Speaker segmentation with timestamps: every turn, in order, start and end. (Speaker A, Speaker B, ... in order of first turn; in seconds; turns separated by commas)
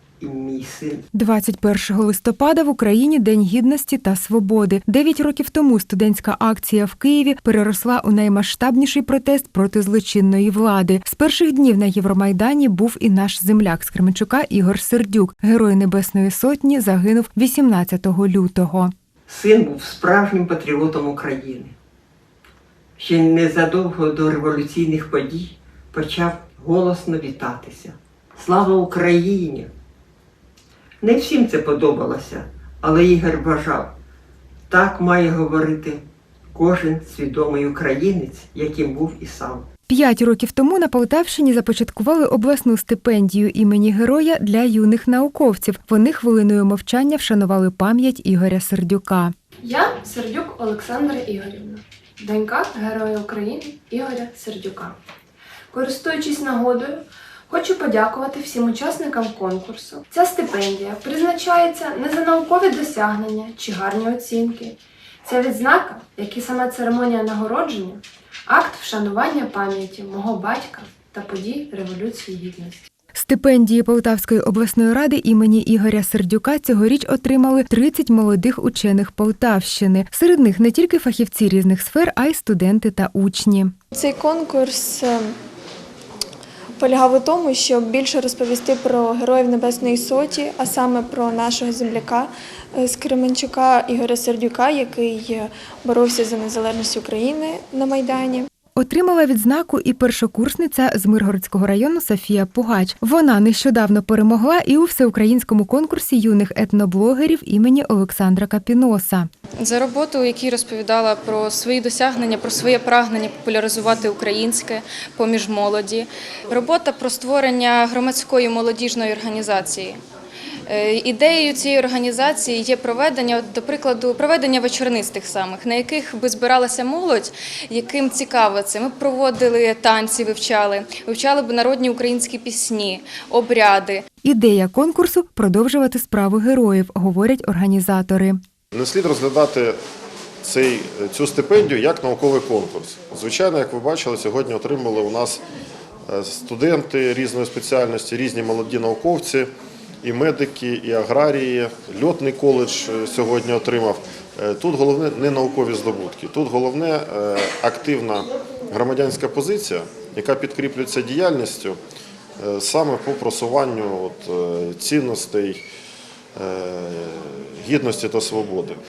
Speaker A: 0.2-1.0, Speaker B: 1.1-18.9, Speaker A: 19.3-21.8, Speaker A: 23.0-29.7, Speaker A: 31.0-33.9, Speaker A: 34.7-39.7, Speaker B: 39.9-49.3, Speaker C: 49.6-55.0, Speaker C: 55.7-72.8, Speaker B: 73.1-83.7, Speaker D: 83.9-85.3, Speaker D: 86.8-98.5, Speaker B: 98.8-109.3, Speaker E: 109.6-120.0, Speaker E: 120.7-134.0, Speaker B: 134.2-138.4, Speaker F: 138.7-139.8, Speaker F: 140.4-145.4, Speaker F: 146.1-149.5, Speaker F: 150.0-161.8, Speaker F: 162.4-165.6, Speaker F: 166.4-168.8